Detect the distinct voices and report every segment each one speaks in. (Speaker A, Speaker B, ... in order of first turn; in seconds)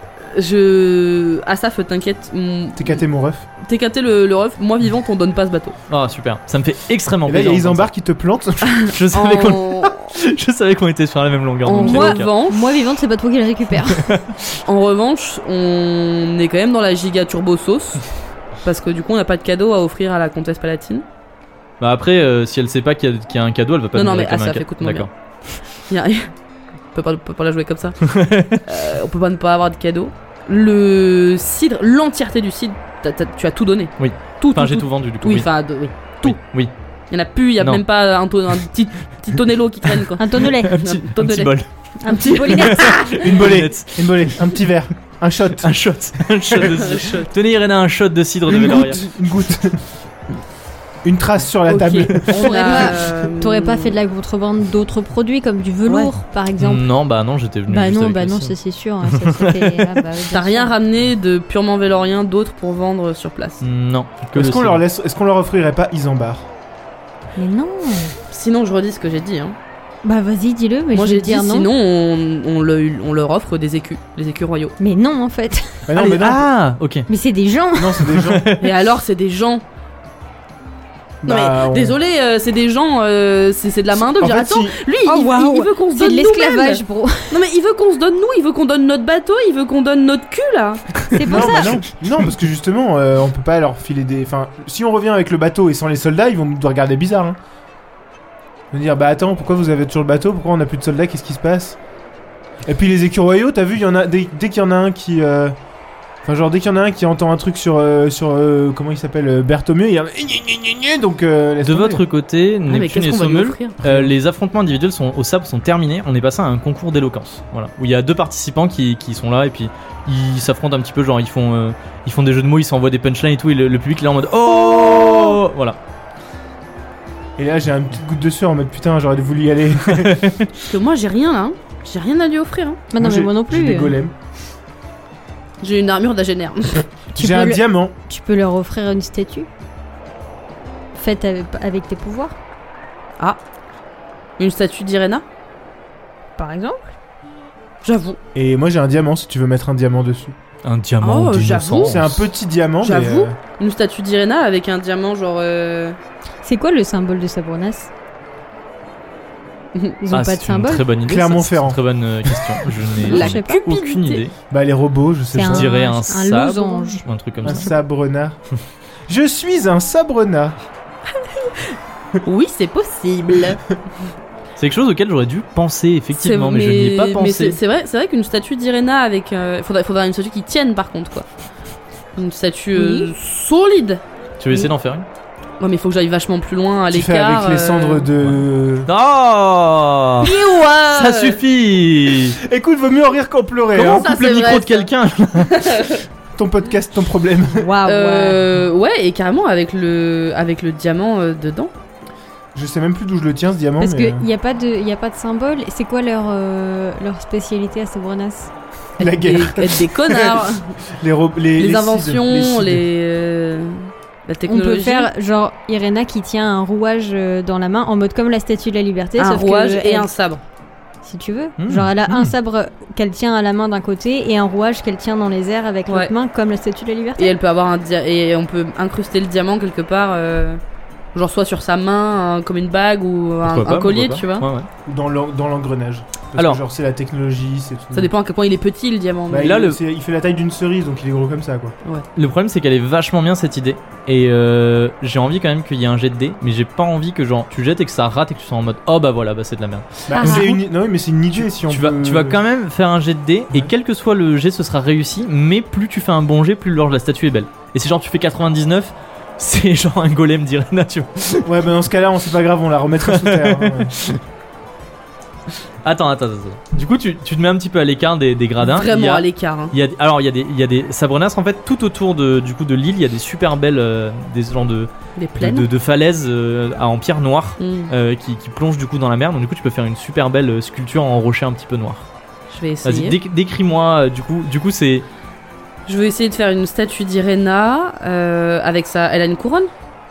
Speaker A: 0.2-3.0, 3.6-5.8, 8.7-10.1, 11.6-12.7, 14.6-18.0, 18.6-21.0, 23.9-25.1, 25.7-26.3, 26.9-36.4, 37.1-41.5, 42.0-43.2, 46.5-47.3, 51.7-54.0, 55.9-56.1, 60.3-63.6, 68.3-69.5, 70.9-74.8, 78.6-79.6, 81.2-91.6, 112.7-113.8, 130.7-132.8, 135.6-136.8, 144.4-145.2, 147.8-148.2, 151.0-152.0, 152.8-156.0, 159.7-160.0, 163.1-164.2, 171.2-171.7, 172.2-173.7, 176.1-181.2, 182.2-184.7, 185.6-188.1, 190.2-191.4, 193.9-194.9, 195.5-196.0, 197.8-201.7, 209.0-210.7, 211.6-215.1, 219.2-220.4, 225.9-226.1, 227.2-230.6, 231.1-234.5, 237.9-239.6, 268.6-269.7, 275.1-275.7, 277.6-277.9, 282.5-283.2, 285.9-289.7
Speaker B: 2.7-3.5, 7.2-8.8, 43.2-45.7, 48.5-49.8, 51.0-52.9, 64.3-66.5, 75.8-76.5, 77.8-78.5, 81.2-82.0, 84.0-84.7, 91.3-97.4, 98.7-101.8, 102.7-105.5, 106.2-112.0, 127.4-130.3, 133.0-134.1, 137.1-137.9, 148.3-150.3, 151.8-153.3, 161.1-162.5, 164.5-165.8, 167.4-168.4, 169.1-170.6, 186.9-188.9, 192.4-194.1, 196.3-197.7, 202.5-204.2, 209.0-212.8, 234.8-238.1, 239.3-241.8, 250.1-252.4, 261.4-263.9
Speaker C: 5.9-7.9, 8.8-12.3, 13.9-14.3, 21.8-25.1, 28.0-28.6, 34.0-35.5, 36.2-36.7, 40.6-41.7, 42.4-44.4, 45.6-49.0, 56.6-58.5, 59.0-60.0, 63.6-64.8, 76.0-77.1, 78.1-78.7, 111.6-125.8, 129.8-130.5, 150.6-152.2, 160.1-164.3, 165.4-167.8, 174.6-177.6, 184.4-185.1, 188.2-192.4, 193.7-195.7, 221.6-222.3, 233.4-234.7, 236.3-236.6, 239.4-239.8, 242.2-250.4, 251.3-261.5, 263.0-264.2, 265.8-282.1, 282.8-285.1
Speaker D: 11.7-14.1, 40.2-41.4, 42.0-43.1, 52.3-56.9, 57.7-60.7, 67.3-68.1, 70.0-71.7, 74.8-75.8, 77.1-78.2, 85.0-87.4, 91.1-91.8, 124.8-125.3, 132.9-134.0, 137.1-139.5, 140.9-142.3, 146.3-146.9, 156.4-157.9, 160.0-160.9, 163.0-163.6, 165.3-167.7, 182.7-183.1, 197.6-198.4, 203.8-208.5, 214.4-220.1, 221.0-227.3, 250.2-250.6